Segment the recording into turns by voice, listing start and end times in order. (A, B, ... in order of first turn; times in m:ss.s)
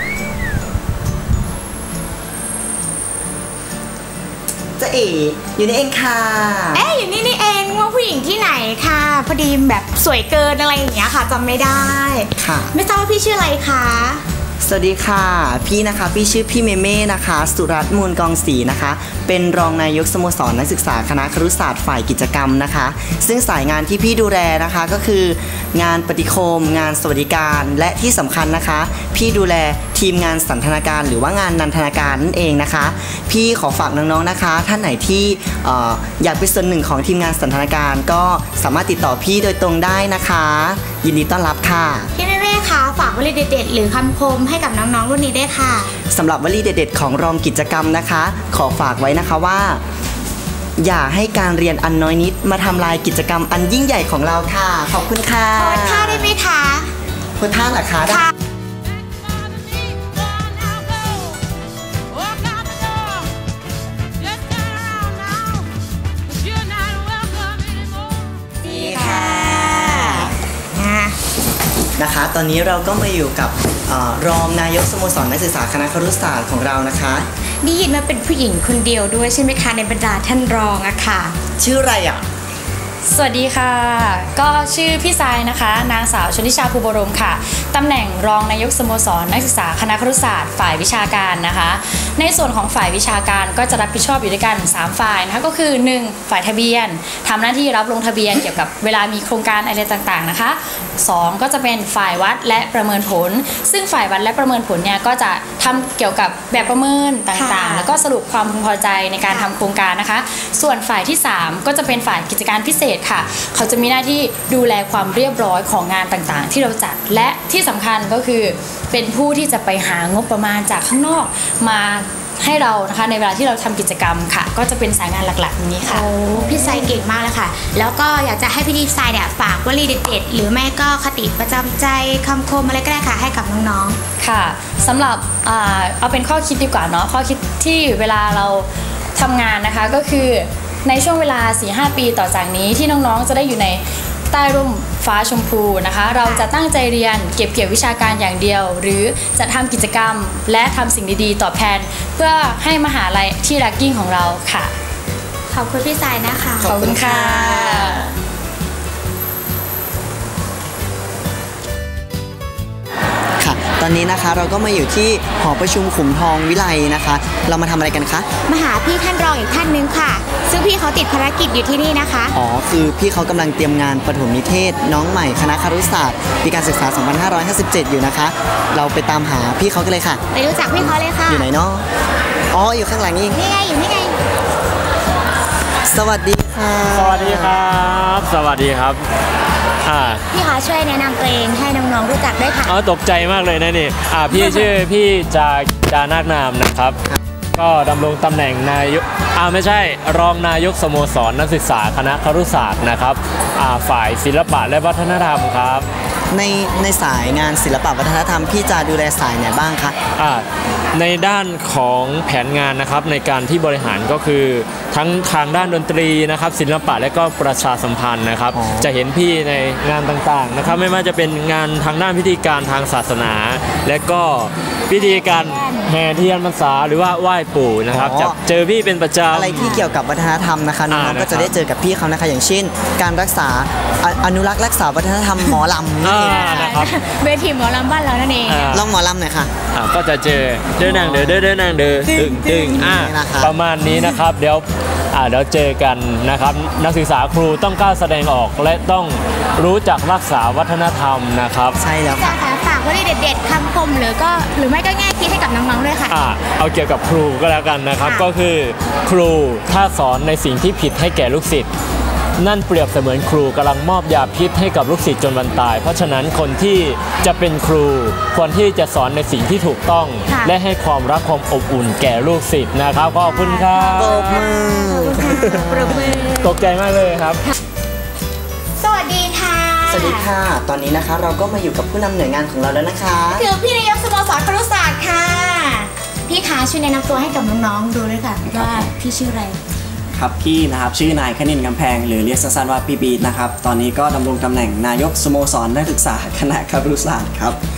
0:04.8-0:06.9 A
0:06.7-0:14.2 B
0:12.4-0:12.7 A
0:14.6-0:42.1 A
0:42.2-0:45.9 B
0:46.1-0:49.8 A
0:50.8-0:56.3 A
0:55.6-0:56.9 B
0:57.4-0:58.3 A
1:08.6-1:11.2 B
1:08.6-1:10.3 A
1:12.0-1:17.3 A
1:17.6-1:21.4 B
1:21.6-1:22.2 A
1:23.0-2:06.0 C
1:47.3-1:47.9 B
1:49.3-1:49.5 B
2:05.8-2:14.0 B
2:14.2-2:34.7 C
2:26.2-2:26.5 B
2:35.5-2:36.7 B
2:36.6-2:38.0 A
2:36.6-2:38.1 C
2:43.4-2:48.3 A
2:48.5-2:52.3 B
2:52.3-3:00.2 A
3:00.3-3:01.5 B
3:00.7-3:01.8 A
3:02.5-3:03.4 A
3:03.3-3:04.2 B
3:05.8-3:07.6 A
3:06.9-3:09.0 D
3:09.8-3:10.2 D
3:10.3-3:12.8 B
3:12.6-3:17.0 D
3:14.3-3:14.7 B
3:17.5-3:25.9 D
3:26.3-3:30.0 A
3:30.2-3:49.7 D
3:38.5-3:38.9 A
3:44.9-3:45.9 B
3:47.9-3:48.4 A
3:49.3-3:56.6 A
3:49.6-3:49.9 B
3:50.9-3:51.5 D
3:56.0-3:56.9 D
3:56.2-3:58.8 B
3:58.4-3:58.9 D
3:58.7-3:59.5 A
3:59.7-4:11.8 D
4:00.8-4:01.5 A
4:02.1-4:02.7 B
4:02.7-4:03.5 A
4:11.8-4:12.3 A
4:12.1-4:16.2 B
4:16.1-4:21.7 D
4:18.0-4:18.3 B
4:22.4-4:34.6 D
4:30.3-4:30.6 B
4:33.2-4:36.5 B
4:33.9-4:36.3 A
4:35.2-4:35.8 D
4:36.4-4:37.4 D
4:38.8-4:40.3 B
4:39.9-4:43.5 A
4:43.3-4:49.6 B
4:48.4-4:48.9 E
4:50.1-4:57.6 E